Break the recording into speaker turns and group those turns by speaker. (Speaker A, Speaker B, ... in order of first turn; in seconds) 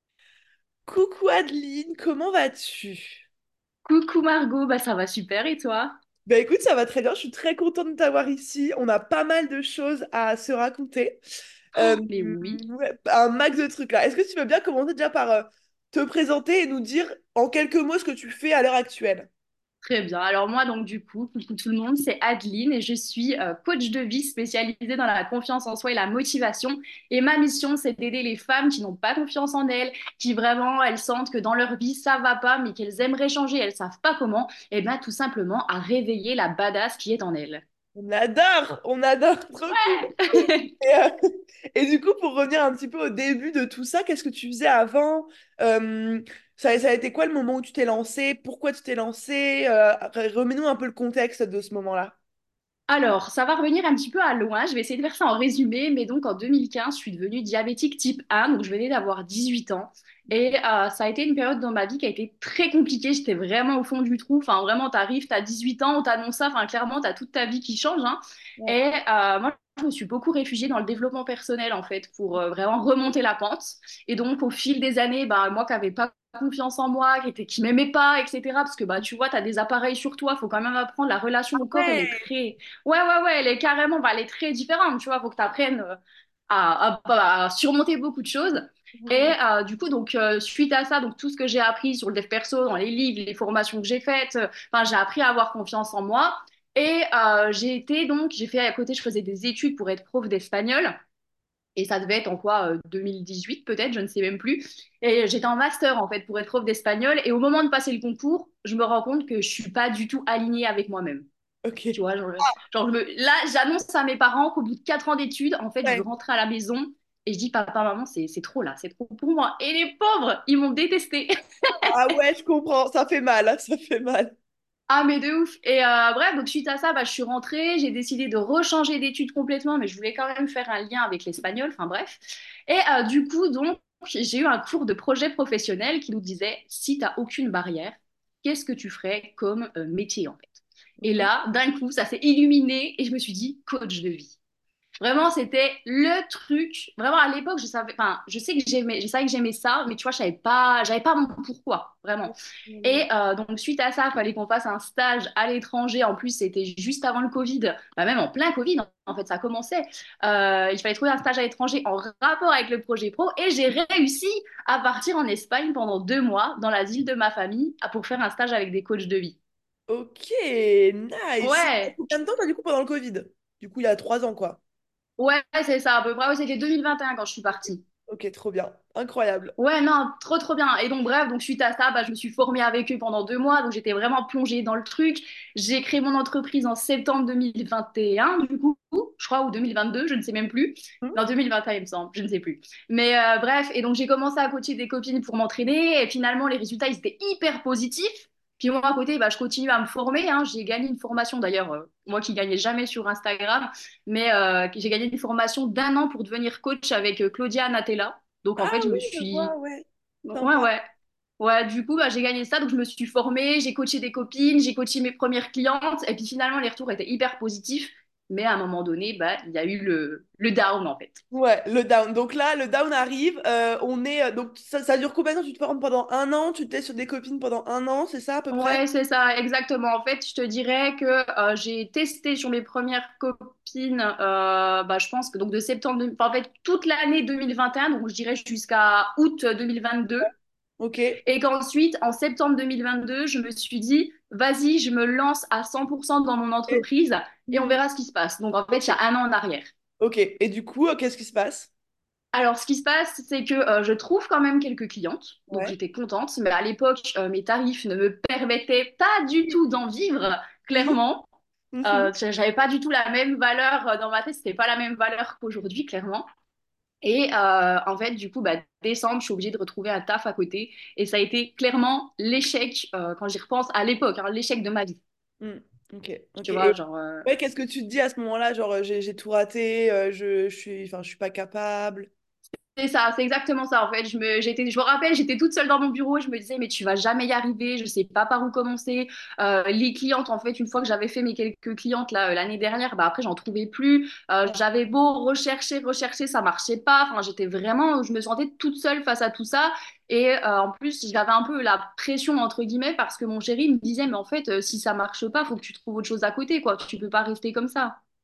Speaker A: 0.8-3.2, 6.2-11.2, 11.7-19.3, 37.9-41.1, 41.7-52.1, 81.6-82.2, 89.0-89.4, 111.6-112.0, 121.9-124.3, 141.0-141.3, 152.7-153.1, 169.9-174.6, 178.1-179.5, 208.6-210.7, 221.3-228.8, 240.8-241.2, 247.5-247.8, 250.0-251.7, 255.5-255.8, 261.7-262.1, 275.4-282.1
Speaker B: 3.9-5.9, 11.8-12.6, 19.8-37.6, 39.7-40.7, 52.9-85.9, 86.5-100.9, 101.8-111.2, 111.9-121.3, 124.9-140.5, 141.0-144.4, 145.0-169.4, 171.4-172.0, 175.2-177.8, 179.6-209.5, 210.2-210.8, 211.4-221.2, 228.5-240.3, 241.2-249.7, 252.3-261.3, 261.8-266.2, 267.0-275.0, 276.4-277.3, 282.8-308.0